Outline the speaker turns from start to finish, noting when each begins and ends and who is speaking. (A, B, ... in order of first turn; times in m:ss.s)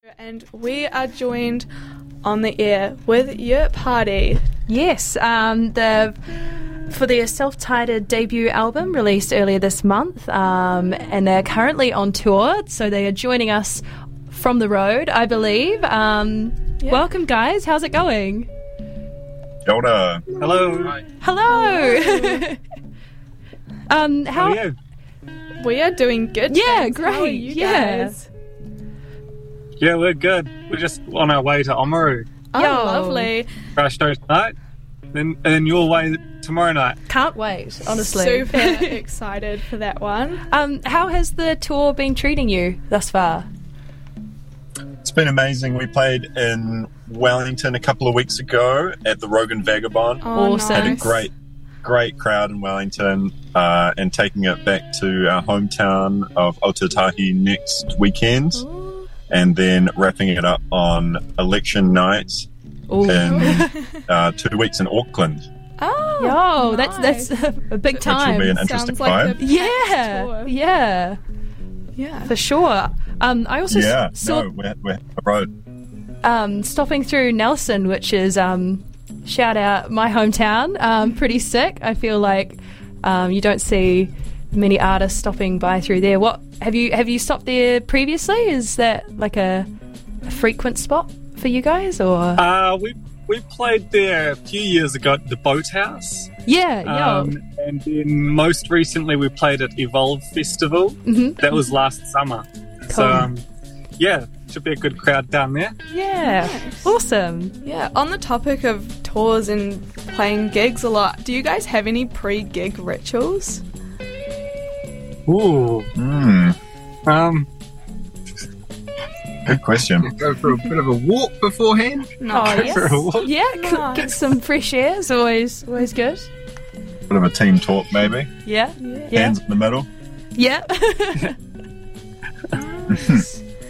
0:00.2-0:01.7 A
0:02.2-0:04.4 A
0:04.7-0:06.2 B
0:06.9-0:18.5 B
0:19.6-0:20.3 C
0:20.4-0:21.0 D
0:21.2-0:22.6 B
0:21.5-0:22.4 A
0:23.9-0:24.6 B
0:24.4-0:24.8 D
0:25.6-0:28.3 A
0:26.5-0:28.2 B
0:29.8-0:32.3 D
0:32.5-0:33.5 A
0:32.6-0:33.3 B
0:33.8-0:34.6 D
0:35.1-0:37.0 D
0:37.1-0:39.0 B
0:37.9-0:40.4 A
0:40.5-0:43.5 B
0:45.0-0:51.3 C
0:50.2-0:51.2 A
0:50.4-0:51.1 B
0:51.8-0:58.6 C
0:59.3-1:02.5 C
1:02.9-1:03.7 B
1:03.0-1:05.4 C
1:03.3-1:03.8 A
1:05.8-1:07.3 A
1:06.2-1:08.6 B
1:07.9-1:10.5 A
1:08.0-1:09.4 C
1:09.4-1:11.2 B
1:12.0-1:12.3 A
1:12.3-1:14.5 B
1:13.7-1:15.5 C
1:16.2-1:29.7 B
1:30.2-1:32.4 B
1:32.4-1:36.3 D
1:36.5-1:37.4 B
1:36.8-1:43.4 D
1:41.1-1:41.5 B
1:42.9-1:43.3 B
1:44.0-1:45.8 D
1:45.9-1:47.6 B
1:46.2-1:46.9 A
1:47.6-1:53.6 A
1:55.3-1:55.9 D
1:56.0-1:56.6 C
1:57.1-1:57.5 D
1:59.5-2:00.1 C
2:00.0-2:02.1 E
2:02.2-2:04.3 A
2:02.3-2:06.3 B
2:02.5-2:03.3 D
2:07.1-2:08.3 C
2:08.4-2:09.4 B
2:08.8-2:09.1 A
2:09.1-2:09.9 C
2:10.4-2:11.4 B
2:12.5-2:13.4 A
2:12.9-2:13.2 C